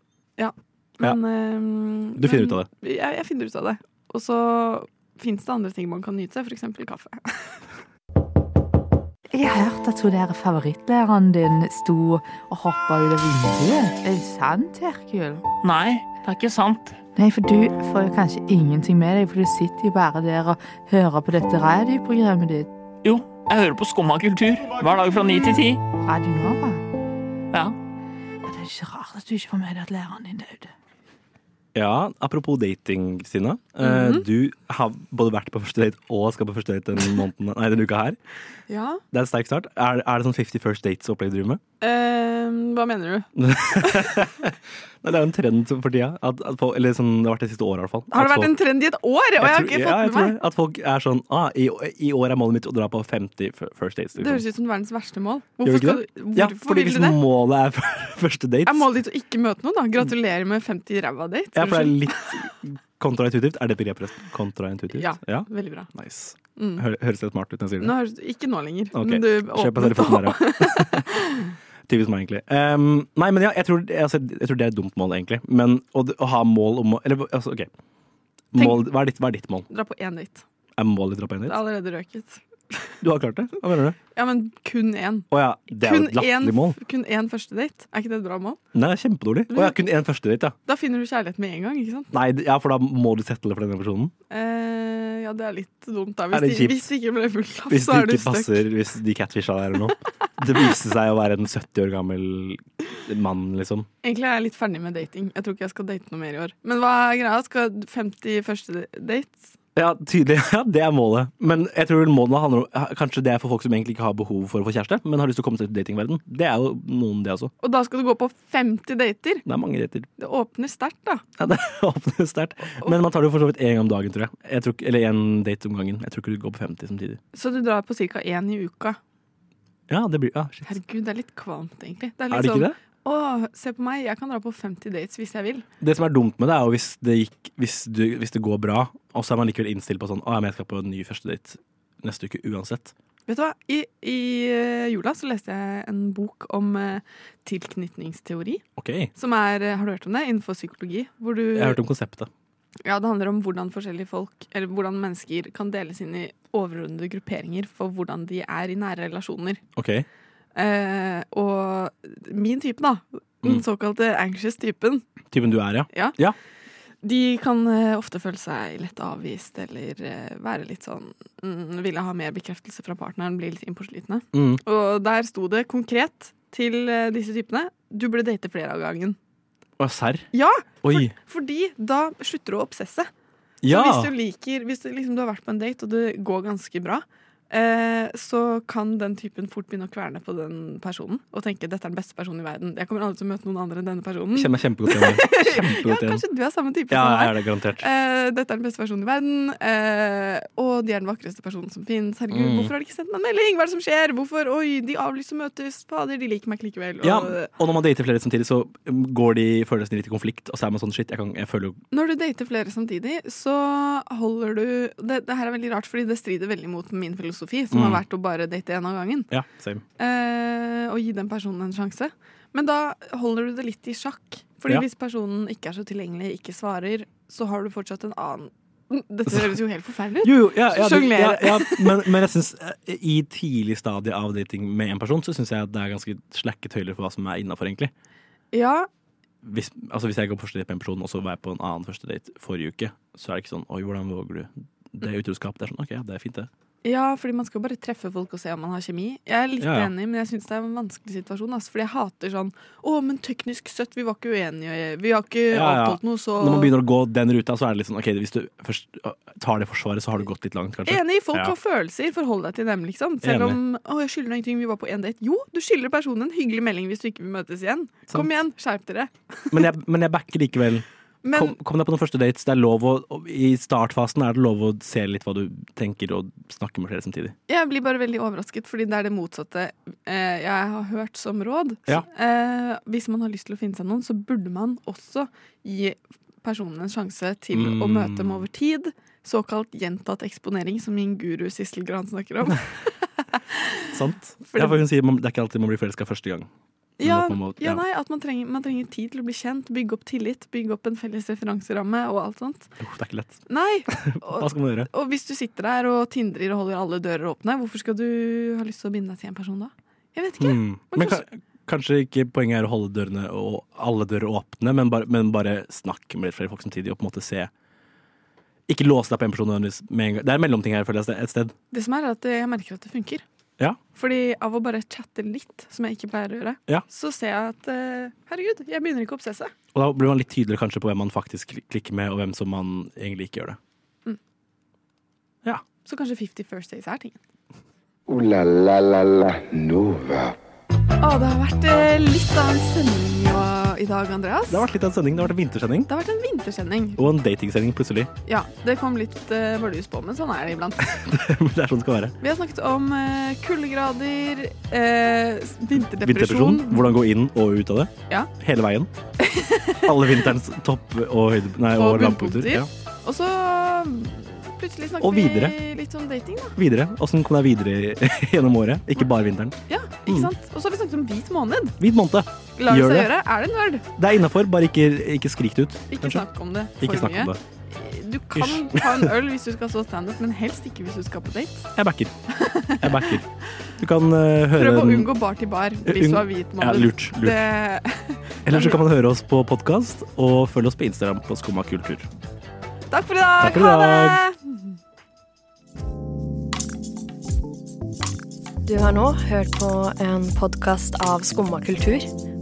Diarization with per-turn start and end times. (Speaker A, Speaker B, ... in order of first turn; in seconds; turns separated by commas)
Speaker A: 0.4-7.6, Speaker B: 2.2-2.7, Speaker C: 9.3-15.6, Speaker D: 15.6-17.0, Speaker C: 17.1-22.7, Speaker D: 23.0-25.8, Speaker C: 25.9-26.8, Speaker C: 28.4-30.7, Speaker B: 31.7-38.2, Speaker A: 33.8-34.2, Speaker A: 38.7-39.0, Speaker B: 39.1-41.6, Speaker A: 41.8-44.2, Speaker B: 43.4-48.5, Speaker A: 48.1-50.4, Speaker B: 49.4-54.4, Speaker A: 54.2-57.2, Speaker B: 55.6-59.0, Speaker A: 58.7-62.3, Speaker B: 61.5-68.0, Speaker A: 64.9-65.9, Speaker A: 66.6-66.8, Speaker A: 67.8-71.5, Speaker B: 68.9-71.1, Speaker B: 71.9-77.7, Speaker B: 78.5-79.7, Speaker A: 78.6-78.9, Speaker A: 79.7-80.4, Speaker B: 80.8-81.6, Speaker A: 81.5-82.9, Speaker B: 83.0-84.0, Speaker A: 84.1-88.6, Speaker B: 85.3-86.8, Speaker B: 88.7-90.5, Speaker A: 89.5-89.8, Speaker A: 90.7-92.1, Speaker B: 92.1-94.1, Speaker A: 94.3-98.7, Speaker B: 96.3-96.9, Speaker B: 97.7-103.9, Speaker A: 104.0-109.5, Speaker B: 109.8-117.5, Speaker A: 117.6-119.5, Speaker B: 119.5-120.1, Speaker A: 120.2-121.2, Speaker B: 121.4-127.2, Speaker A: 127.3-129.0, Speaker B: 129.9-130.7, Speaker A: 130.7-135.7, Speaker B: 132.3-132.8, Speaker B: 135.8-142.9, Speaker A: 143.3-148.6, Speaker B: 148.8-149.1, Speaker A: 149.2-151.8, Speaker B: 151.5-152.3, Speaker A: 152.8-159.6, Speaker B: 159.8-160.1, Speaker A: 160.6-165.1, Speaker B: 165.3-166.4, Speaker A: 165.9-166.2, Speaker A: 167.0-179.2, Speaker B: 174.3-174.6, Speaker B: 179.8-180.3, Speaker A: 180.3-183.1, Speaker B: 180.8-181.1, Speaker B: 183.6-184.1, Speaker A: 183.7-207.5, Speaker B: 194.3-196.2, Speaker B: 196.9-197.8, Speaker B: 202.3-202.7, Speaker B: 207.0-211.8, Speaker A: 211.9-219.3, Speaker B: 217.7-218.0, Speaker B: 219.3-219.8, Speaker A: 220.0-232.1, Speaker B: 229.3-229.5, Speaker B: 230.2-237.9, Speaker A: 238.5-238.9, Speaker B: 239.4-246.5, Speaker A: 246.8-256.7, Speaker B: 249.6-249.9, Speaker B: 255.5-261.5, Speaker A: 260.9-269.7, Speaker B: 263.2-263.6, Speaker B: 269.5-277.4, Speaker A: 271.2-271.6, Speaker A: 277.5-293.9, Speaker B: 287.5-288.5, Speaker B: 293.9-296.5, Speaker A: 294.5-294.8, Speaker A: 297.0-302.7, Speaker B: 297.0-297.8, Speaker B: 302.8-304.9, Speaker A: 303.5-311.2, Speaker B: 310.4-317.5, Speaker B: 318.7-321.6, Speaker A: 321.7-323.2, Speaker A: 323.9-329.5, Speaker B: 329.7-333.6, Speaker A: 335.9-337.2, Speaker E: 338.1-340.4, Speaker A: 341.0-344.7, Speaker B: 344.5-345.9, Speaker A: 345.9-347.0, Speaker B: 347.0-348.1, Speaker A: 348.3-350.9, Speaker B: 350.8-352.1, Speaker A: 352.2-357.0, Speaker B: 356.0-358.9, Speaker A: 359.2-360.2, Speaker B: 359.9-362.7, Speaker A: 361.8-366.6, Speaker B: 365.0-365.6, Speaker B: 366.6-370.3, Speaker A: 369.7-371.8, Speaker B: 371.8-373.2, Speaker A: 372.6-373.9, Speaker B: 374.0-376.3, Speaker A: 375.9-381.7, Speaker B: 376.8-377.4, Speaker B: 378.4-379.1, Speaker B: 381.8-382.1, Speaker A: 382.3-383.1, Speaker B: 382.7-383.3, Speaker B: 383.8-385.1, Speaker A: 384.5-388.8, Speaker B: 385.9-387.5, Speaker B: 388.5-392.1, Speaker A: 392.9-394.5, Speaker B: 393.4-394.2, Speaker F: 398.6-402.1